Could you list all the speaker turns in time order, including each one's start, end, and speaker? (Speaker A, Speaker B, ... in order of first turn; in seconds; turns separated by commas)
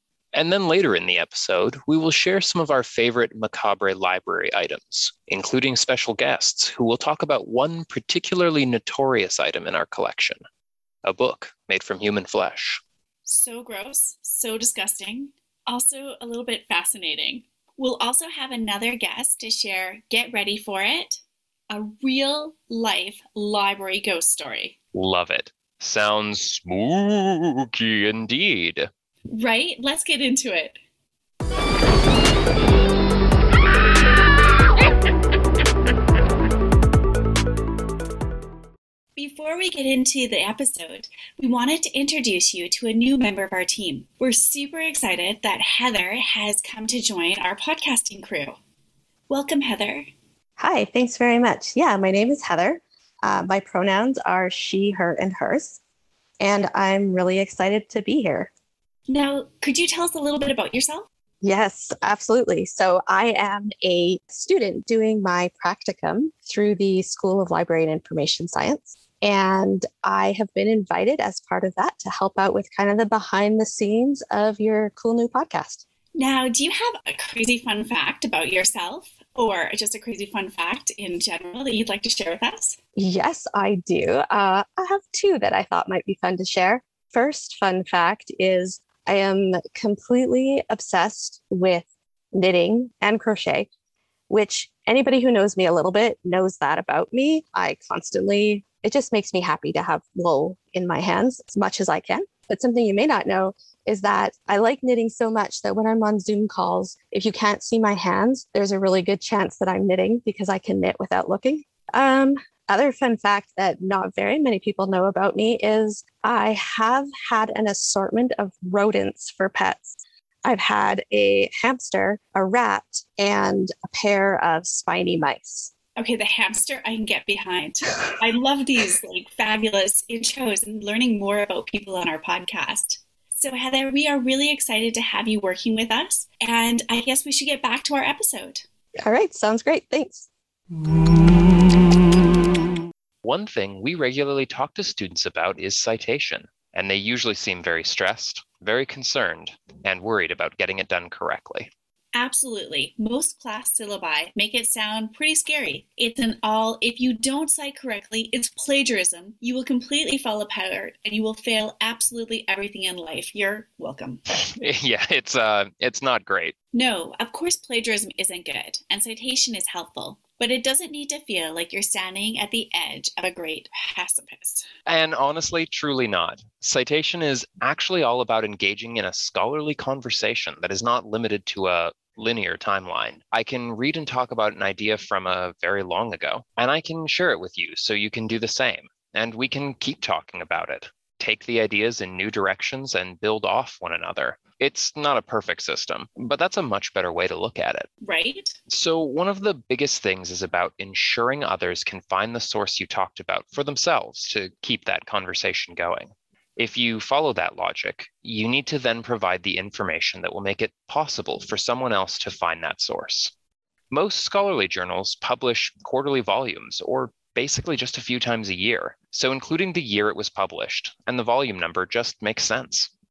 Speaker A: 0.3-10.4, Speaker A: 11.0-12.8, Speaker B: 13.3-24.8, Speaker A: 24.9-28.9, Speaker B: 29.3-30.8, Speaker B: 39.2-48.6, Speaker B: 49.3-50.1, Speaker C: 50.6-55.8, Speaker C: 56.4-58.5, Speaker B: 59.1-61.1, Speaker C: 61.4-75.8, Speaker B: 76.2-82.8, Speaker C: 83.0-93.7, Speaker C: 94.3-125.7, Speaker B: 126.0-138.7, Speaker C: 139.0-140.3, Speaker A: 143.2-151.7, Speaker B: 152.1-164.2, Speaker A: 164.6-166.6, Speaker B: 166.7-174.7, Speaker A: 174.9-197.9, Speaker B: 198.0-198.6, Speaker A: 198.7-213.3, Speaker A: 213.9-222.9